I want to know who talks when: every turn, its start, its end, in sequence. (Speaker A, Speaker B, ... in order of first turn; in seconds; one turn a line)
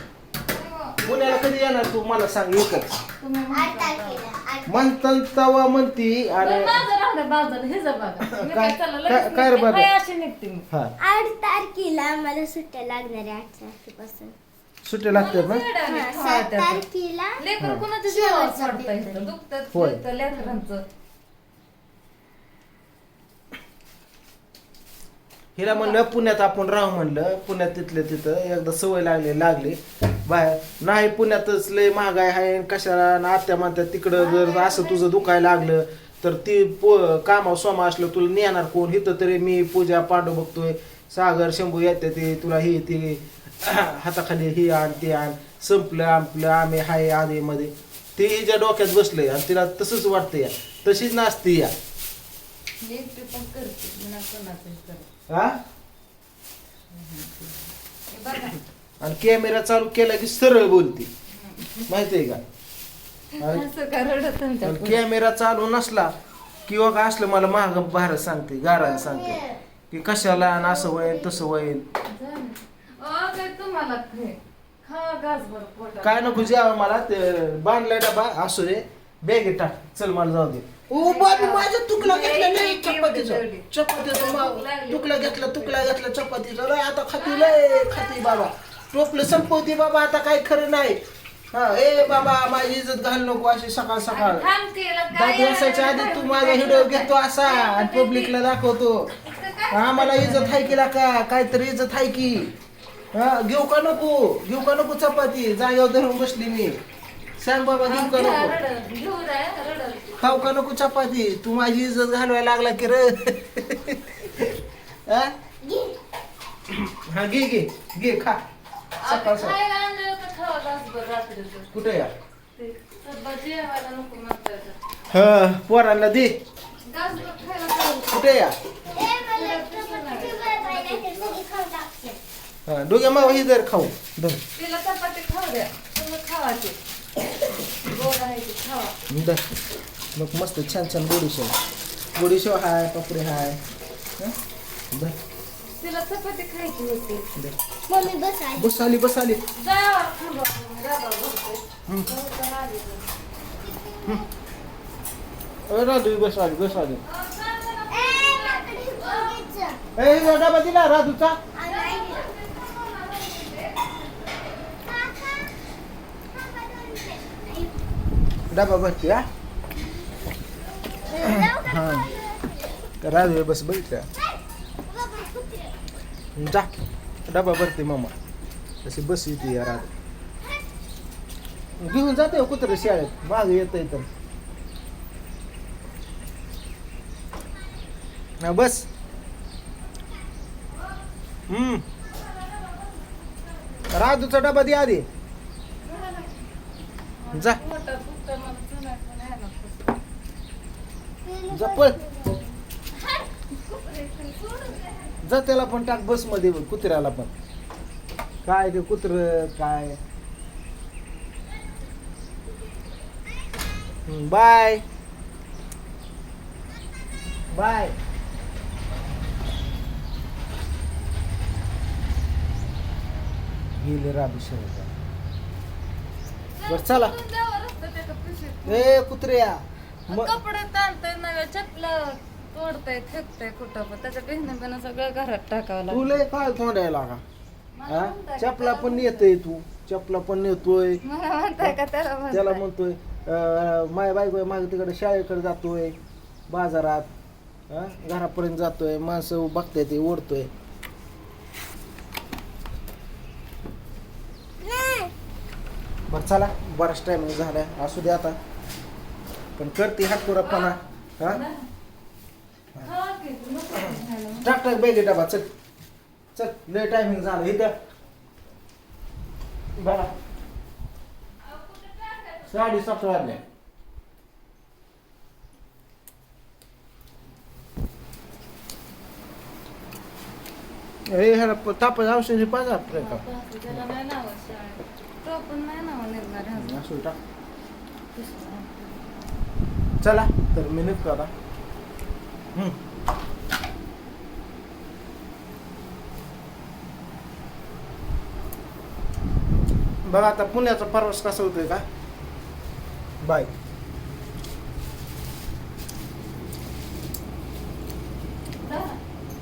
Speaker A: 0.5-1.0
Speaker B: 1.0-3.0
Speaker A: 3.2-4.2
Speaker C: 3.5-4.9
Speaker B: 4.7-6.8
Speaker A: 6.4-10.7
Speaker B: 8.2-9.9
Speaker C: 11.0-14.3
Speaker B: 14.8-15.6
Speaker A: 15.1-16.8
Speaker C: 15.9-17.4
Speaker A: 17.4-20.8
Speaker C: 18.1-19.3
Speaker B: 19.7-20.0
Speaker B: 25.6-51.7
Speaker A: 25.6-26.0
Speaker A: 34.1-35.5
Speaker A: 52.8-55.1
Speaker B: 55.3-55.6
Speaker A: 56.9-58.6
Speaker B: 59.0-61.1
Speaker A: 61.3-61.9
Speaker B: 61.8-62.4
Speaker A: 63.4-65.0
Speaker B: 63.4-63.6
Speaker B: 64.6-66.1
Speaker B: 66.7-71.8
Speaker C: 68.7-69.6
Speaker C: 70.4-71.5
Speaker A: 72.0-76.5
Speaker B: 76.0-91.0
Speaker A: 80.9-85.9
Speaker A: 87.2-88.5
Speaker B: 91.5-94.5
Speaker A: 94.1-98.4
Speaker B: 95.1-99.1
Speaker A: 99.2-100.8
Speaker B: 99.7-102.5
Speaker B: 103.1-106.8
Speaker B: 107.4-108.5
Speaker A: 107.8-110.4
Speaker B: 110.2-115.3
Speaker C: 115.6-116.0
Speaker B: 116.9-118.4
Speaker A: 119.0-121.7
Speaker B: 119.0-119.6
Speaker B: 121.7-122.1
Speaker A: 122.5-124.8
Speaker B: 125.1-126.4
Speaker A: 126.8-128.5
Speaker B: 128.1-128.6
Speaker C: 128.9-132.2
Speaker A: 129.3-131.4
Speaker B: 132.7-134.4
Speaker A: 134.6-136.8
Speaker A: 137.5-139.0
Speaker B: 139.1-139.6
Speaker B: 140.1-141.5
Speaker B: 142.2-143.6
Speaker B: 144.9-145.2
Speaker A: 145.7-147.3
Speaker C: 147.9-148.9
Speaker B: 148.6-149.4
Speaker A: 149.6-153.1
Speaker C: 153.5-154.3
Speaker B: 155.7-157.0
Speaker A: 157.0-159.4
Speaker C: 157.9-159.8
Speaker B: 159.9-161.4
Speaker C: 161.5-162.3
Speaker A: 161.6-164.6
Speaker C: 164.8-165.5
Speaker C: 166.3-167.8
Speaker B: 168.5-169.3
Speaker C: 171.0-172.8
Speaker B: 171.2-172.1
Speaker B: 173.0-174.1
Speaker C: 174.2-175.8
Speaker B: 176.3-176.7
Speaker B: 177.3-178.2
Speaker B: 178.8-179.9
Speaker C: 179.4-179.8
Speaker B: 181.8-184.1
Speaker B: 188.4-188.9
Speaker B: 191.5-191.8
Speaker A: 192.0-194.0
Speaker B: 193.9-195.1
Speaker A: 195.8-196.3
Speaker A: 197.2-200.0
Speaker B: 197.3-197.6
Speaker C: 201.2-202.5
Speaker B: 201.5-202.4
Speaker A: 202.9-205.2
Speaker B: 205.2-207.3
Speaker B: 208.4-210.0
Speaker B: 214.1-214.8
Speaker B: 217.5-217.9
Speaker B: 223.8-224.9
Speaker A: 226.5-229.0
Speaker B: 226.7-227.1
Speaker B: 228.6-230.3
Speaker A: 230.1-236.2
Speaker B: 235.9-237.2
Speaker A: 237.7-239.3
Speaker B: 237.9-241.0
Speaker A: 241.0-242.6
Speaker B: 242.3-245.9
Speaker B: 246.5-247.1
Speaker B: 247.7-250.5
Speaker C: 254.6-255.1
Speaker B: 256.1-258.4
Speaker B: 259.6-261.4
Speaker A: 260.3-261.7
Speaker A: 262.8-264.5
Speaker B: 264.4-265.5
Speaker B: 266.3-267.7
Speaker B: 269.8-270.1
Speaker A: 271.4-273.3
Speaker B: 272.5-273.4
Speaker B: 281.1-283.8
Speaker A: 282.9-286.8
Speaker B: 286.5-287.2
Speaker A: 288.1-289.3
Speaker B: 290.0-291.3
Speaker B: 300.0-301.8
Speaker B: 303.2-303.5
Speaker A: 308.6-309.0